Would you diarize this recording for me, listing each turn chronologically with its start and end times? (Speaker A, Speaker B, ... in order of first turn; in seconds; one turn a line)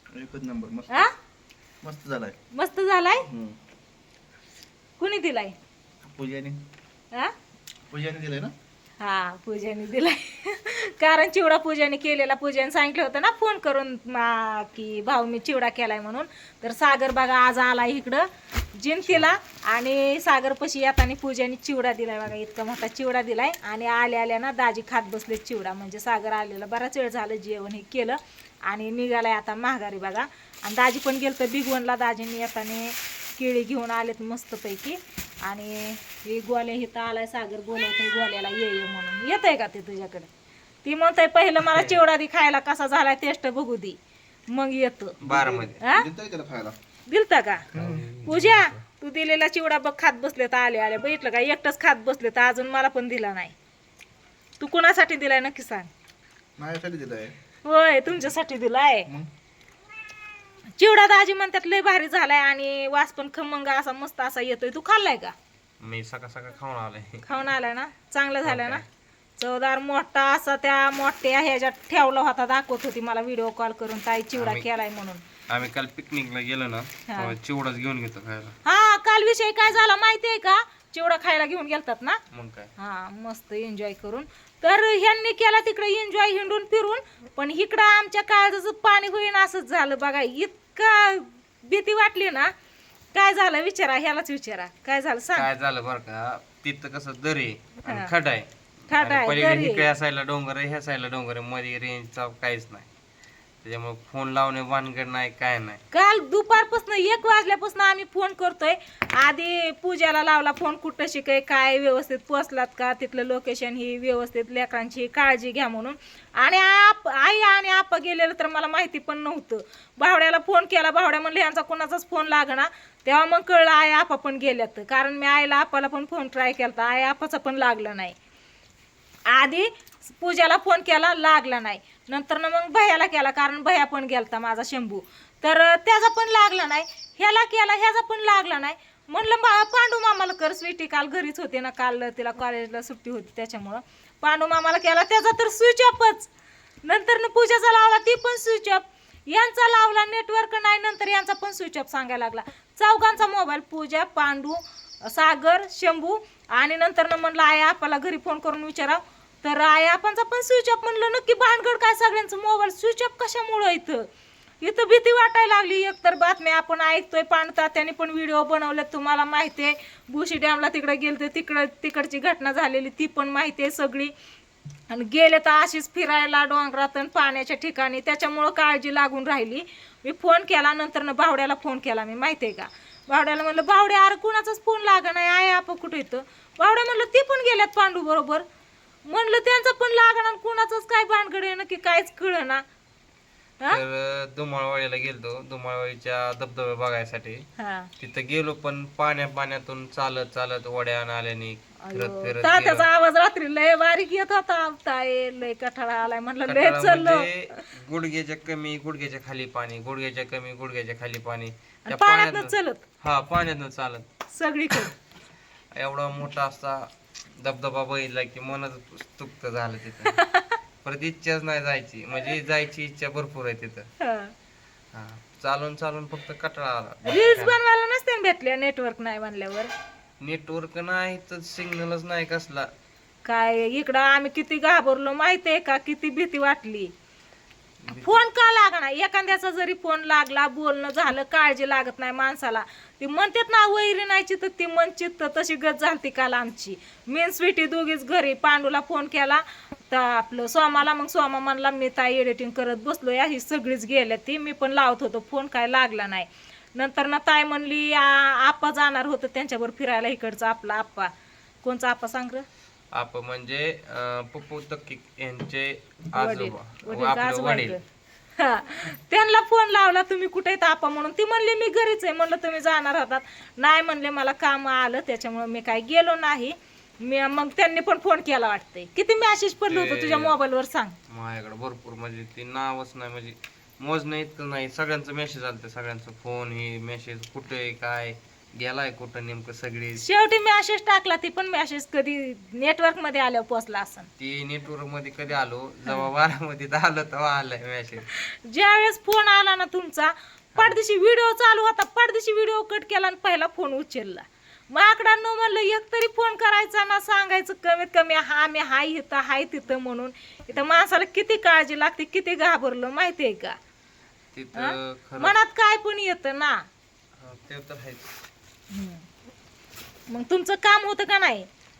Speaker A: 0.1-1.1
Speaker A: 1.8-2.4
Speaker B: 2.5-3.3
Speaker A: 3.3-3.6
Speaker B: 5.0-5.5
Speaker A: 6.0-6.6
Speaker A: 7.9-8.5
Speaker B: 9.0-40.3
Speaker B: 40.8-44.0
Speaker C: 41.7-42.0
Speaker B: 44.5-45.2
Speaker C: 45.2-45.8
Speaker A: 45.2-46.8
Speaker B: 45.8-46.1
Speaker B: 47.1-47.7
Speaker A: 47.7-48.1
Speaker C: 47.7-48.8
Speaker B: 48.2-53.5
Speaker B: 54.6-55.9
Speaker A: 56.6-57.3
Speaker B: 57.6-59.1
Speaker B: 60.8-65.3
Speaker C: 65.8-67.2
Speaker B: 67.2-68.8
Speaker C: 68.5-68.8
Speaker B: 69.4-75.2
Speaker C: 74.3-74.7
Speaker C: 75.5-78.6
Speaker B: 77.1-77.4
Speaker B: 78.7-82.2
Speaker C: 82.3-82.7
Speaker B: 82.8-92.5
Speaker B: 93.1-95.5
Speaker C: 95.4-102.9
Speaker B: 97.9-98.1
Speaker B: 98.9-99.9
Speaker C: 103.6-105.8
Speaker B: 105.9-128.2
Speaker B: 129.3-146.3
Speaker B: 146.8-164.1
Speaker B: 164.6-174.1
Speaker B: 174.9-188.4
Speaker B: 189.1-192.6
Speaker C: 193.7-197.4
Speaker B: 197.6-197.9
Speaker C: 198.0-202.9
Speaker B: 201.8-207.6
Speaker C: 206.5-214.1
Speaker B: 211.9-212.8
Speaker B: 214.3-214.9
Speaker C: 215.7-216.9
Speaker C: 217.4-220.2
Speaker B: 220.1-220.6
Speaker C: 220.8-223.9
Speaker B: 224.0-224.3
Speaker C: 224.9-227.6
Speaker B: 227.1-229.7
Speaker C: 230.2-232.7
Speaker B: 233.2-236.9
Speaker C: 237.8-238.2
Speaker B: 237.9-261.1
Speaker B: 261.6-262.4
Speaker C: 262.9-267.8
Speaker B: 266.1-267.8
Speaker B: 268.4-281.0
Speaker C: 279.6-280.4
Speaker C: 281.1-290.0
Speaker B: 290.0-294.1
Speaker C: 294.2-298.1
Speaker B: 298.1-313.6
Speaker C: 314.3-315.4
Speaker B: 314.6-316.6
Speaker C: 317.2-318.1
Speaker B: 318.7-319.1
Speaker B: 320.1-321.5